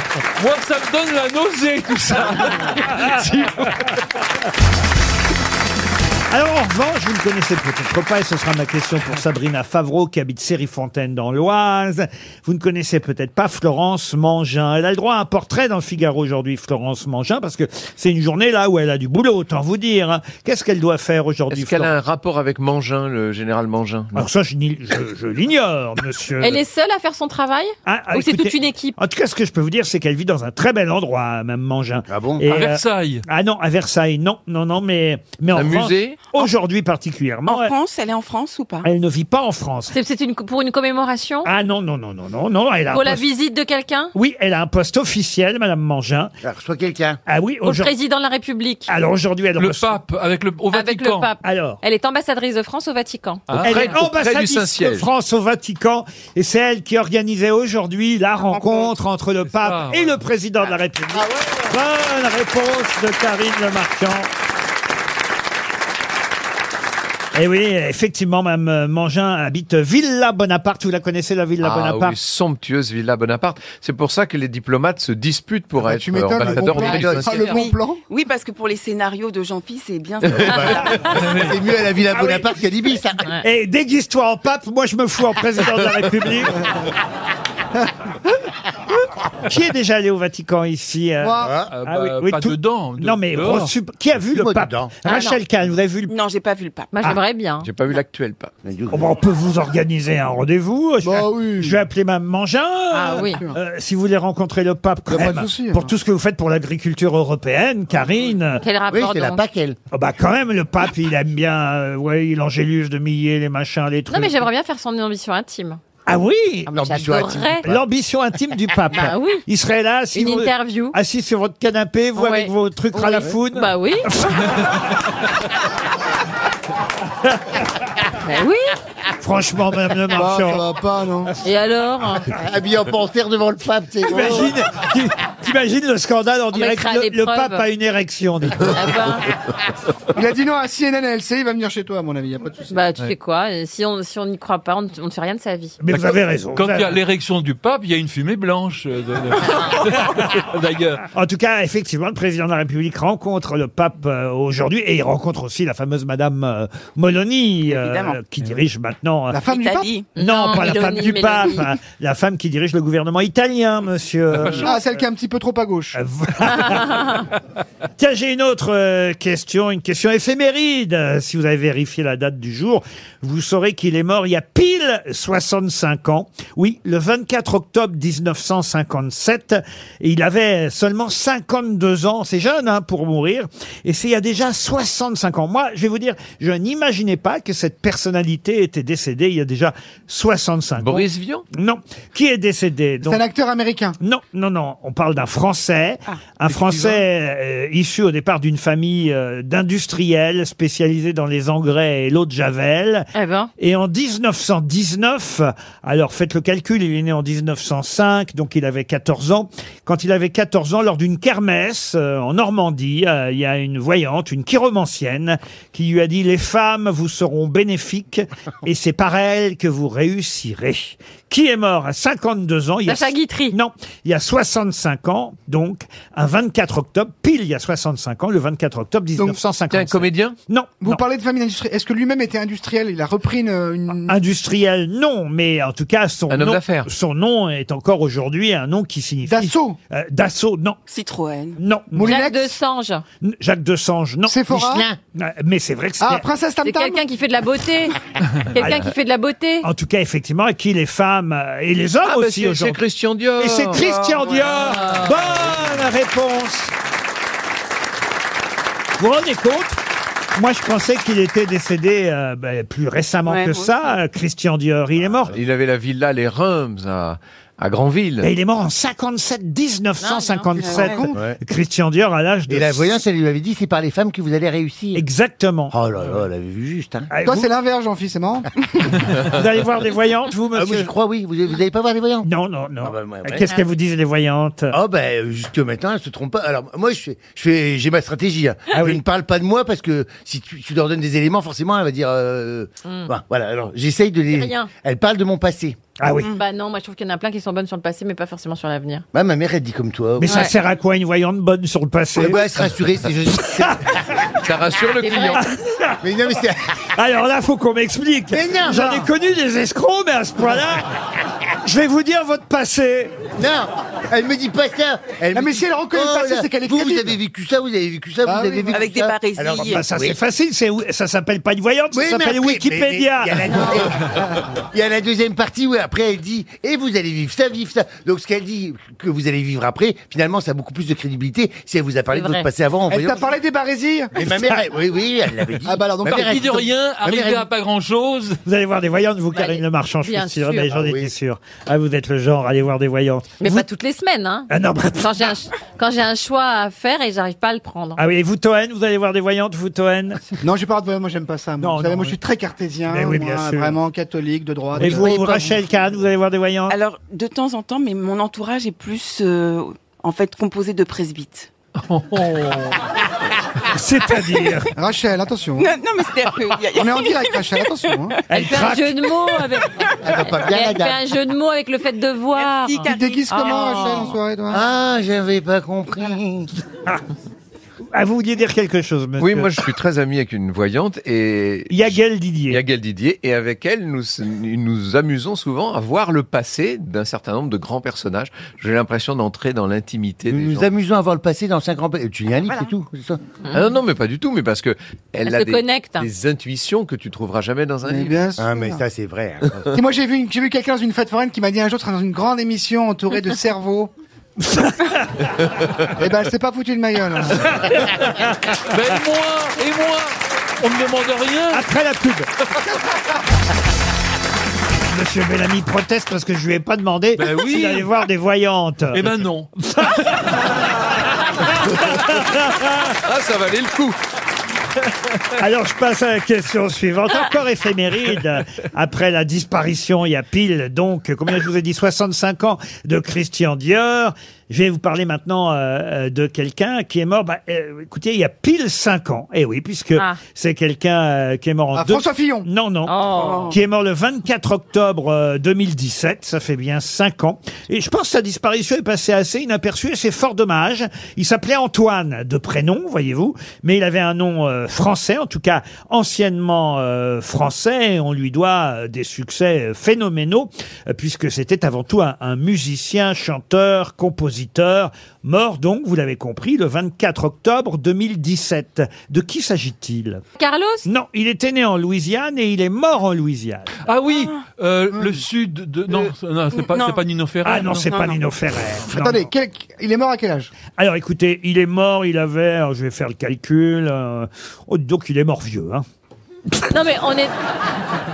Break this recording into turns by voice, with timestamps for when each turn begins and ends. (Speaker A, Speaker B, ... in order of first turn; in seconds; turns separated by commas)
Speaker A: 0.4-3.8, Speaker B: 2.9-3.3, Speaker B: 6.3-21.9, Speaker C: 21.5-24.2, Speaker B: 24.1-26.6, Speaker D: 26.4-29.0, Speaker B: 27.9-37.7, Speaker E: 32.1-32.5, Speaker A: 32.5-33.2, Speaker C: 35.5-36.2, Speaker F: 37.5-38.9, Speaker B: 38.8-39.9, Speaker D: 39.9-41.5, Speaker B: 41.4-43.2, Speaker D: 42.9-44.1, Speaker B: 44.1-46.3, Speaker E: 46.4-47.2, Speaker B: 47.3-47.9, Speaker D: 47.6-48.9, Speaker B: 48.9-50.0, Speaker A: 49.6-51.3, Speaker D: 50.7-53.6, Speaker B: 51.4-51.8, Speaker A: 53.5-53.9, Speaker C: 53.5-55.1, Speaker B: 53.6-64.3, Speaker G: 58.5-58.9, Speaker A: 59.5-60.2, Speaker B: 67.3-72.2, Speaker C: 71.6-77.4, Speaker G: 75.8-78.0, Speaker E: 76.4-77.3, Speaker D: 77.1-77.6, Speaker F: 77.5-81.0, Speaker E: 80.3-83.2, Speaker B: 83.4-86.6, Speaker B: 89.5-96.1, Speaker G: 91.2-91.6, Speaker E: 91.4-91.7, Speaker A: 91.7-93.7, Speaker E: 94.3-94.9, Speaker D: 95.0-95.4, Speaker F: 96.1-97.1, Speaker D: 96.9-97.7, Speaker C: 97.6-98.5, Speaker E: 98.6-99.1, Speaker B: 98.9-108.6, Speaker G: 101.0-101.8, Speaker D: 102.9-103.4, Speaker G: 103.2-103.6, Speaker G: 105.1-105.9, Speaker D: 108.6-109.4, Speaker E: 108.9-109.8, Speaker B: 109.9-114.5, Speaker D: 114.1-115.8, Speaker B: 116.1-116.7, Speaker D: 116.7-117.7, Speaker E: 116.7-117.8, Speaker B: 117.6-124.8, Speaker D: 118.9-119.4, Speaker D: 120.1-121.0, Speaker D: 122.2-124.1, Speaker B: 127.2-127.6, Speaker D: 128.2-128.7, Speaker B: 129.2-130.7, Speaker G: 130.1-131.3, Speaker D: 131.4-132.3, Speaker E: 132.3-134.5, Speaker B: 134.1-138.8, Speaker D: 136.5-137.7, Speaker D: 138.7-139.3, Speaker G: 140.1-142.7, Speaker D: 142.7-145.8, Speaker B: 145.8-147.0, Speaker A: 145.9-151.0, Speaker B: 151.1-159.4, Speaker F: 157.7-158.2, Speaker G: 159.3-159.9, Speaker F: 159.5-160.1, Speaker D: 160.2-161.6, Speaker B: 160.2-164.8, Speaker A: 164.4-164.6, Speaker G: 164.5-166.0, Speaker B: 165.9-167.3, Speaker B: 168.0-193.2, Speaker C: 190.8-191.4, Speaker G: 193.0-194.0, Speaker B: 194.0-203.1, Speaker D: 203.1-203.5, Speaker B: 203.6-231.0, Speaker D: 222.8-223.6, Speaker C: 229.7-230.4, Speaker G: 230.8-234.2, Speaker B: 234.1-240.8, Speaker C: 236.3-236.9, Speaker G: 239.2-239.8, Speaker F: 240.9-241.6, Speaker B: 241.6-242.1, Speaker G: 241.9-242.5, Speaker D: 242.0-243.0, Speaker B: 243.2-246.2, Speaker G: 244.2-244.9, Speaker E: 244.5-244.9, Speaker G: 246.0-247.0, Speaker D: 246.6-247.9, Speaker D: 248.5-249.7, Speaker B: 248.6-248.8, Speaker B: 249.6-252.8, Speaker C: 252.0-253.8, Speaker B: 253.4-256.7, Speaker F: 253.8-254.7, Speaker B: 259.0-259.8, Speaker B: 260.4-265.3, Speaker F: 263.2-264.0, Speaker C: 265.3-268.3, Speaker B: 268.2-272.9, Speaker D: 270.0-270.5, Speaker G: 270.6-271.2, Speaker F: 270.6-271.0, Speaker E: 272.5-275.0, Speaker B: 274.9-275.7, Speaker E: 275.7-277.1, Speaker B: 277.1-277.5, Speaker G: 277.2-278.5, Speaker B: 279.2-280.9, Speaker E: 280.5-282.3, Speaker B: 282.2-284.7, Speaker E: 282.8-283.4, Speaker E: 284.7-295.8, Speaker B: 288.7-289.0, Speaker D: 292.8-293.1, Speaker D: 294.3-294.7, Speaker B: 296.0-296.3, Speaker F: 296.2-296.4, Speaker D: 296.3-299.0, Speaker E: 299.1-300.4, Speaker B: 300.2-302.5, Speaker D: 300.3-300.5, Speaker E: 302.1-303.8, Speaker B: 303.6-303.9, Speaker C: 304.4-305.4, Speaker D: 305.0-305.5, Speaker B: 305.4-306.0, Speaker E: 306.0-306.6, Speaker B: 306.9-310.9, Speaker E: 308.3-309.0, Speaker B: 311.6-313.3, Speaker E: 313.4-320.2, Speaker G: 315.3-317.1, Speaker G: 318.2-318.8, Speaker F: 318.7-319.9, Speaker B: 319.6-323.7, Speaker E: 321.9-333.3, Speaker G: 323.6-323.9, Speaker D: 332.1-332.5, Speaker G: 332.9-334.1, Speaker E: 334.1-337.5, Speaker G: 335.6-336.6, Speaker A: 336.1-338.4, Speaker B: 338.4-343.6, Speaker D: 339.3-340.7, Speaker E: 340.7-341.1, Speaker D: 343.4-348.0, Speaker B: 344.5-345.2, Speaker B: 348.0-350.3, Speaker G: 350.4-355.6, Speaker B: 351.6-352.1, Speaker B: 352.9-353.8, Speaker B: 354.8-356.8, Speaker E: 354.8-355.2, Speaker F: 356.7-361.5, Speaker A: 361.8-362.8, Speaker B: 363.7-364.7, Speaker G: 364.8-365.7, Speaker F: 365.6-367.9, Speaker G: 366.8-368.2, Speaker D: 368.3-369.7, Speaker B: 368.3-368.9, Speaker E: 370.0-371.0, Speaker D: 370.2-374.1, Speaker F: 372.3-374.1, Speaker G: 372.9-374.6, Speaker E: 374.5-376.5, Speaker B: 377.9-379.6, Speaker C: 379.2-381.9, Speaker B: 381.7-382.6, Speaker C: 382.5-390.7, Speaker E: 390.3-393.2, Speaker F: 392.4-392.7, Speaker C: 393.5-398.2, Speaker D: 395.2-396.1, Speaker G: 397.8-398.8, Speaker E: 398.4-399.6, Speaker G: 399.7-403.9, Speaker B: 404.4-405.3, Speaker G: 406.0-407.5, Speaker B: 407.2-408.6, Speaker A: 408.7-411.6, Speaker B: 411.5-412.3, Speaker B: 414.9-420.7, Speaker A: 417.2-417.9, Speaker A: 418.9-419.5, Speaker B: 421.4-423.0, Speaker C: 423.0-424.0, Speaker B: 425.4-470.2, Speaker G: 441.7-442.5, Speaker D: 442.9-443.5, Speaker F: 443.1-443.6, Speaker D: 470.4-470.9, Speaker B: 470.9-473.7, Speaker A: 473.9-477.9, Speaker F: 474.1-474.4, Speaker G: 474.9-475.2, Speaker F: 476.5-477.0, Speaker B: 477.4-479.2, Speaker F: 477.7-478.2, Speaker G: 478.9-480.5, Speaker B: 480.6-485.8, Speaker D: 486.7-487.3